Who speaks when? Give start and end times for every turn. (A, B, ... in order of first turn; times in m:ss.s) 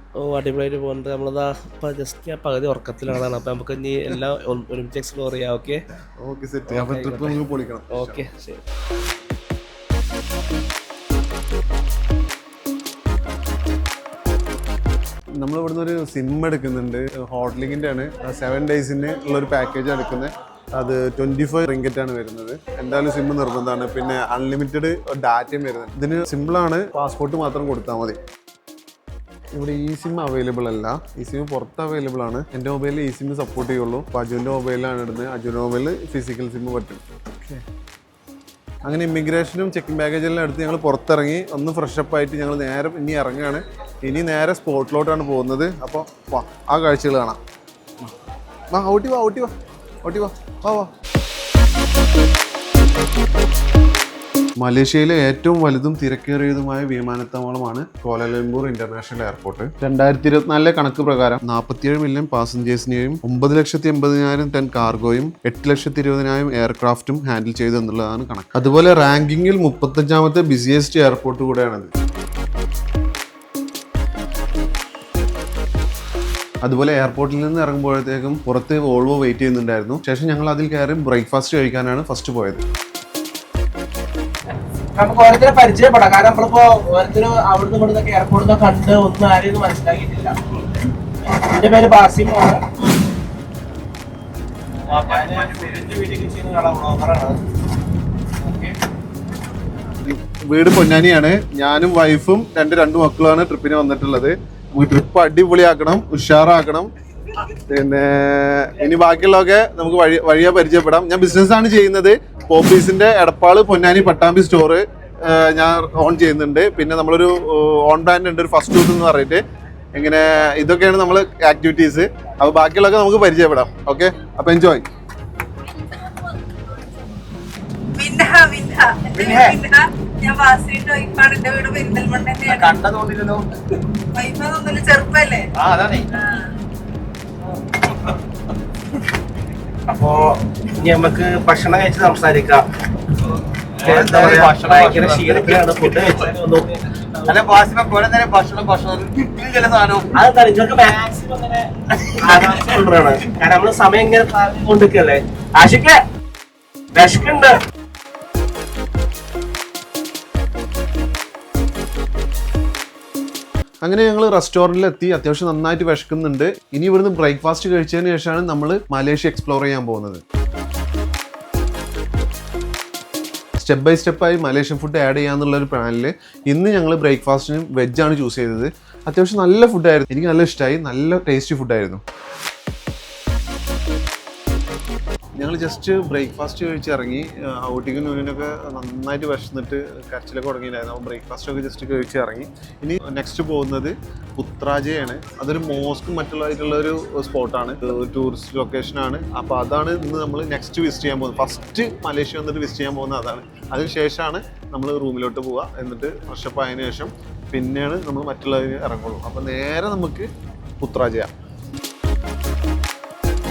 0:00.2-0:05.8 A
0:06.2-0:08.3 B
0:06.7-0:07.4 A
0:07.9-0:08.6 A
0:15.4-0:28.2 B
0:29.6-0:37.6 B
0:38.8-0:47.4 B
0:48.7-0:49.5 B
0:50.0-0:50.9 B
0:54.6-1:11.9 B
1:16.6-1:22.6 B
1:25.0-1:30.4 C
1:31.2-1:32.6 C
1:34.8-1:37.4 C
1:38.4-1:38.7 C
1:40.0-1:46.9 B
1:47.6-1:59.4 B
1:59.9-2:04.8 B
2:05.8-2:06.8 D
2:08.0-2:12.7 D
2:09.2-2:09.6 E
2:12.4-2:13.4 E
2:14.1-2:15.5 D
2:15.6-2:16.1 E
2:16.2-2:16.5 D
2:19.9-2:22.6 C
2:23.8-2:27.4 C
2:23.8-2:26.1 E
2:27.2-2:30.1 E
2:30.1-2:36.0 C
2:36.9-2:37.5 C
2:43.8-2:50.2 B
2:53.6-3:02.0 B
3:05.4-3:30.3 B
3:30.8-3:31.3 B